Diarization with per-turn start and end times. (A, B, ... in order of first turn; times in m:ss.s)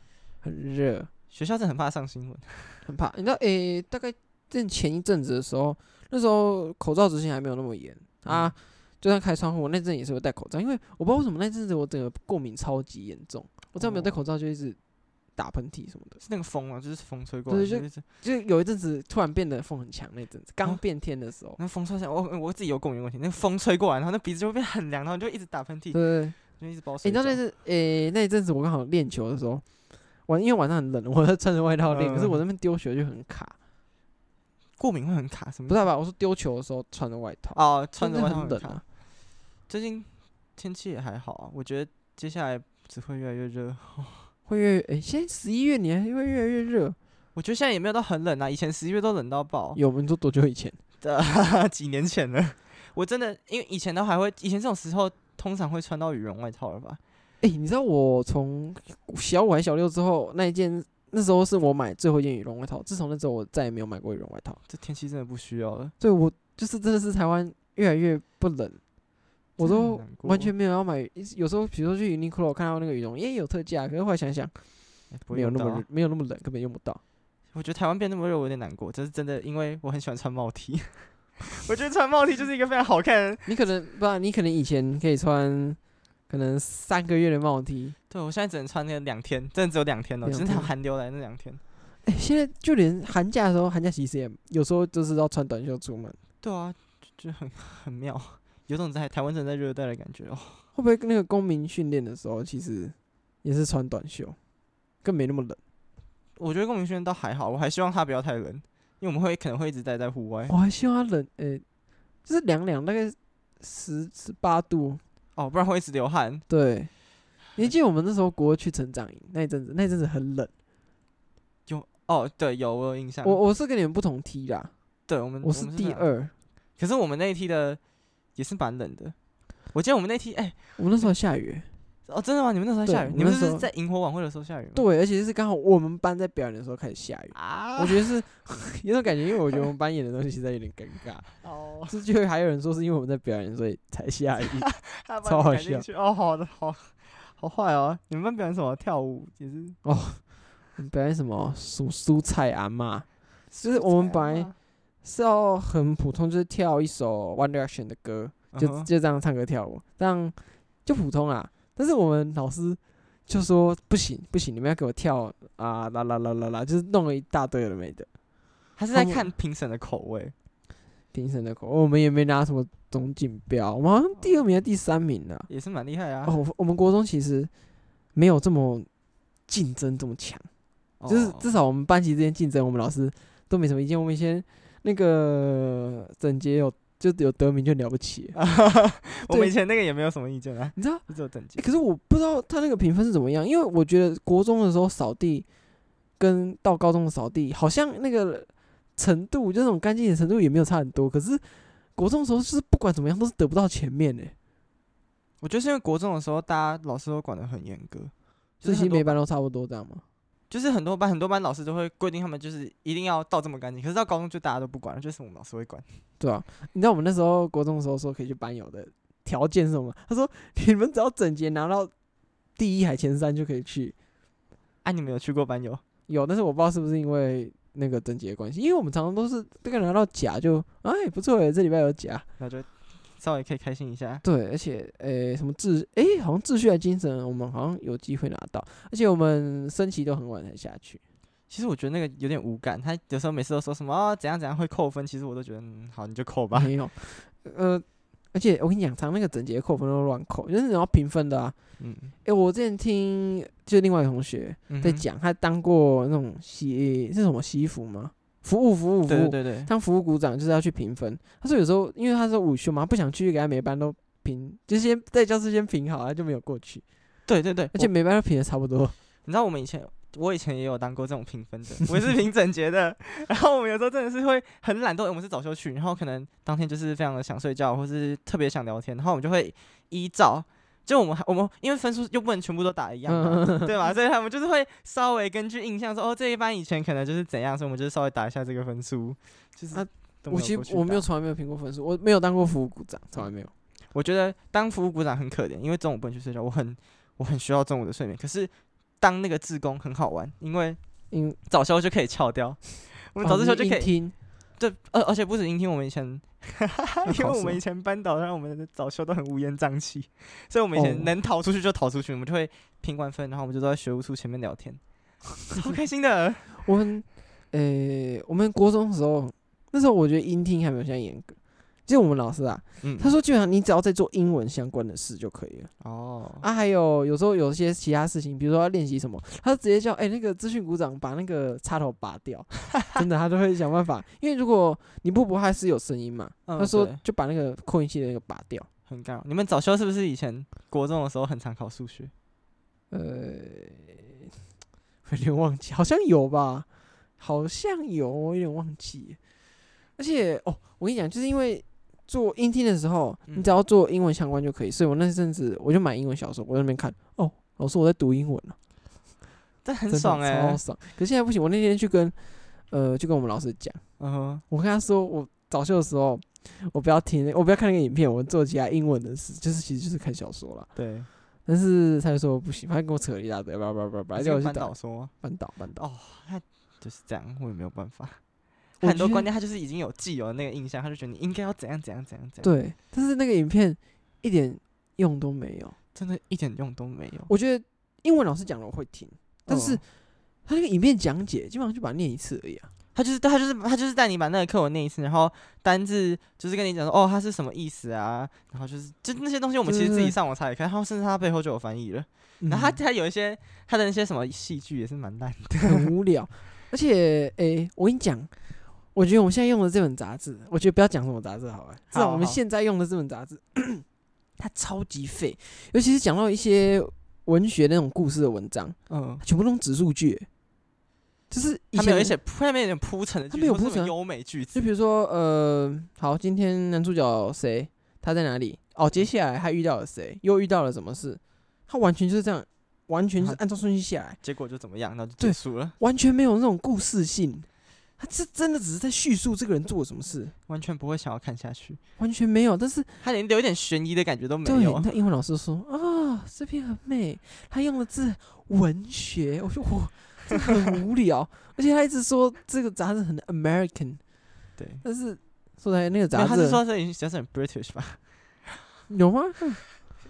0:00.4-0:01.1 A
0:01.3-0:02.8 B
0:02.8-0:14.8 A
0:08.3-0:08.5 B
0:13.8-0:14.2 B
0:15.4-0:16.2 A
0:16.2-0:18.0 B
0:17.5-0:21.6 A
0:21.6-0:27.4 B
0:25.9-0:26.4 A
0:27.0-0:29.6 A
0:30.3-0:33.6 A
0:31.9-0:32.4 B
0:34.8-0:35.8 B
0:35.7-0:38.8 A
0:37.5-0:38.8 B
0:39.7-0:44.3 B
0:44.5-0:47.0 A
0:47.4-0:49.8 B
0:49.8-0:50.8 A
0:51.0-0:57.0 B
0:57.4-1:04.6 A
1:04.7-1:05.9 B
1:06.0-1:08.8 A
1:09.6-1:14.5 A
1:09.6-1:10.5 B
1:15.1-1:15.8 B
1:15.3-1:17.0 A
1:17.5-1:23.5 B
1:23.5-1:28.0 A
1:28.1-1:31.6 B
1:30.2-1:30.7 A
1:32.0-1:36.2 A
1:36.4-1:40.6 B
1:40.8-1:44.4 A
1:45.0-1:45.6 A
1:46.4-1:50.5 B
1:50.5-1:51.6 A
1:52.2-1:55.0 A
1:55.4-1:56.4 B
1:56.5-1:56.9 A
1:57.6-2:00.5 A
2:01.7-2:03.4 B
2:03.2-2:04.7 A
2:05.1-2:06.0 B
2:05.4-2:06.3 A
2:06.8-2:07.8 B
2:08.4-2:09.2 B
2:09.7-2:10.6 B
2:10.8-2:11.7 A
2:12.1-2:14.8 B
2:12.9-2:13.7 A
2:14.8-2:21.3 A
2:17.3-2:18.1 B
2:21.4-2:22.0 B
2:21.9-2:24.7 A
2:24.6-2:29.8 B
2:25.2-2:25.8 A
2:29.8-2:30.2 A
2:30.8-2:33.1 A
2:33.5-2:34.6 B
2:33.6-2:34.5 A
2:35.0-2:48.1 A
2:38.5-2:38.9 B
2:48.8-2:50.3 B
2:48.9-2:49.3 A
2:51.1-2:55.5 A
2:55.5-2:56.3 B
2:56.2-2:57.5 A
2:58.2-2:58.9 A
2:59.5-3:00.5 A
3:01.0-3:01.5 B
3:01.1-3:08.4 A
3:08.3-3:11.6 B
3:10.8-3:11.0 A
3:11.6-3:15.5 A
3:16.2-3:24.3 A
3:25.4-3:29.1 B
3:28.6-3:30.0 A
3:30.5-3:35.9 B
3:36.2-3:41.9 A
3:42.6-3:44.0 A
3:44.8-3:45.8 B
3:46.1-3:52.2 A
3:52.4-3:54.2 B
3:54.2-4:01.0 A
4:01.5-4:06.7 B
4:06.5-4:11.6 A
4:11.8-4:12.1 B
4:12.2-4:26.8 A
4:14.7-4:15.0 B
4:19.1-4:19.7 B
4:27.3-4:27.9 B
4:27.7-4:29.0 A
4:29.3-4:51.1 B
4:43.1-4:43.7 A
4:49.7-4:53.5 A
4:53.9-5:00.8 B
5:01.1-5:01.4 A
5:01.5-5:03.9 B
5:03.2-5:04.1 A
5:04.6-5:14.8 B
5:07.1-5:07.6 A
5:10.8-5:11.1 A
5:15.5-5:16.6 B
5:16.6-5:25.7 A
5:22.8-5:23.1 B
5:25.8-5:26.5 B
5:26.4-5:38.7 A
5:36.5-5:37.0 B
5:38.9-5:42.1 B
5:42.9-5:44.3 A
5:45.0-5:46.7 A
5:47.2-5:49.2 A
5:50.0-5:58.6 A
5:53.3-5:53.5 B
5:59.6-6:00.6 B
5:59.9-6:02.2 A
6:02.7-6:03.8 A
6:04.0-6:04.4 B
6:04.5-6:10.7 A
6:10.8-6:11.1 B
6:11.5-6:15.8 A
6:14.2-6:15.1 B
6:15.8-6:18.2 B
6:18.8-6:19.3 A
6:18.8-6:22.5 B
6:22.4-6:25.8 A
6:26.0-6:27.3 B
6:27.3-6:29.8 A
6:29.5-6:29.8 B
6:30.5-6:32.7 A
6:32.9-6:45.9 B
6:39.7-6:40.2 A
6:42.4-6:42.8 A
6:45.6-6:48.3 A
6:48.9-6:53.8 A
6:51.9-6:52.4 B
6:54.4-7:00.3 A
6:58.9-6:59.2 B
7:01.3-7:02.2 A
7:01.7-7:04.6 B
7:03.3-7:03.9 A
7:04.5-7:14.2 A
7:14.2-7:15.8 B
7:15.2-7:17.5 A
7:18.0-7:20.3 A
7:20.5-7:21.8 B
7:22.0-7:23.0 A
7:23.0-7:24.9 B
7:24.4-7:34.0 A
7:34.6-7:34.8 B
7:34.8-7:36.6 A
7:36.1-7:38.0 B
7:38.9-7:39.6 A